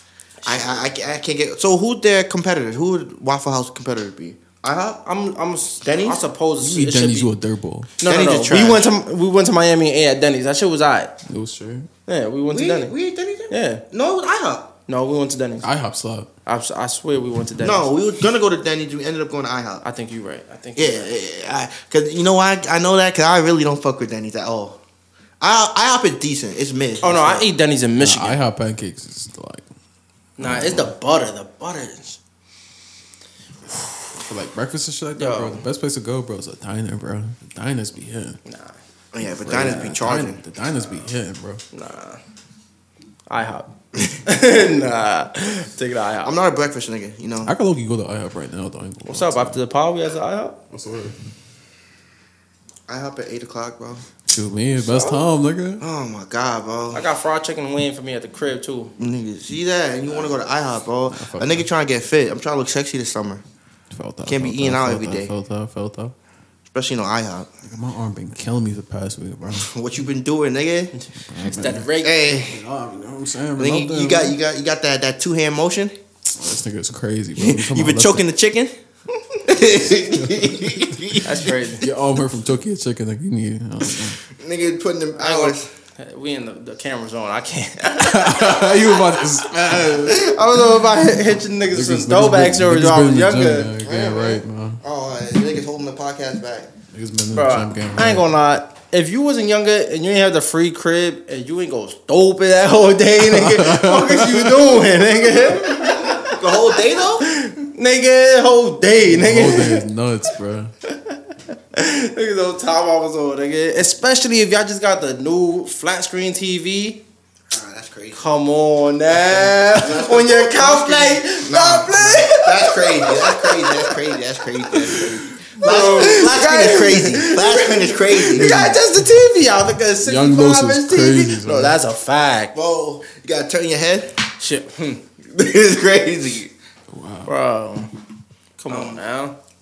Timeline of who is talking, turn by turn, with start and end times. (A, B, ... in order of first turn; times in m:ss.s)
0:00.4-0:05.0 A
0:05.0-0:07.3 B
0:05.8-0:06.2 A
0:06.6-0:07.9 C
0:08.0-0:11.1 B
0:08.0-0:08.9 A
0:11.3-0:11.9 C
0:12.1-0:12.9 B
0:12.5-0:14.7 A
0:13.5-0:13.8 B
0:14.9-0:15.7 B
0:15.6-0:16.3 C
0:16.5-0:17.9 B
0:17.6-0:19.8 A
0:19.8-0:21.1 B
0:20.8-0:24.8 A
0:25.4-0:27.5 A
0:27.0-0:28.4 B
0:28.0-0:29.6 C
0:30.4-0:32.2 B
0:30.4-0:30.9 C
0:34.1-0:38.4 C
0:35.2-0:35.6 B
0:38.5-0:38.8 B
0:39.1-0:40.4 A
0:39.3-0:41.6 C
0:41.7-0:42.2 B
0:43.3-0:46.3 B
0:46.2-0:47.6 A
0:47.5-0:49.6 C
0:49.1-0:50.6 B
0:50.7-0:51.2 C
0:52.9-0:54.1 A
0:54.3-0:55.8 C
0:54.8-0:55.2 B
0:55.8-0:57.0 A
0:56.9-0:58.9 B
0:59.0-1:03.4 A
1:01.1-1:01.7 C
1:03.9-1:06.1 C
1:04.2-1:05.3 A
1:06.7-1:07.5 A
1:07.7-1:09.7 C
1:09.6-1:10.9 A
1:11.0-1:12.3 B
1:11.3-1:11.9 C
1:12.0-1:12.6 A
1:12.4-1:14.4 C
1:13.6-1:15.9 A
1:16.4-1:18.3 C
1:17.4-1:18.7 A
1:19.4-1:21.5 A
1:21.2-1:21.9 B
1:21.8-1:24.2 C
1:24.3-1:25.7 A
1:25.2-1:33.7 B
1:28.0-1:30.4 C
1:31.7-1:34.8 C
1:33.8-1:36.7 A
1:36.9-1:38.3 C
1:37.3-1:46.4 B
1:43.2-1:44.8 C
1:46.0-1:47.3 A
1:47.2-1:49.8 B
1:49.1-1:50.7 C
1:50.9-1:51.2 B
1:51.7-1:57.0 B
1:57.5-1:58.2 A
1:58.1-2:04.1 B
1:59.7-2:08.6 A
2:04.7-2:05.1 B
2:05.6-2:12.5 B
2:08.4-2:08.8 C
2:10.0-2:11.8 C
2:12.5-2:14.2 A
2:14.4-2:15.0 B
2:15.3-2:16.5 A
2:16.9-2:17.3 C
2:17.3-2:17.9 B
2:18.6-2:19.4 B
2:18.7-2:19.0 A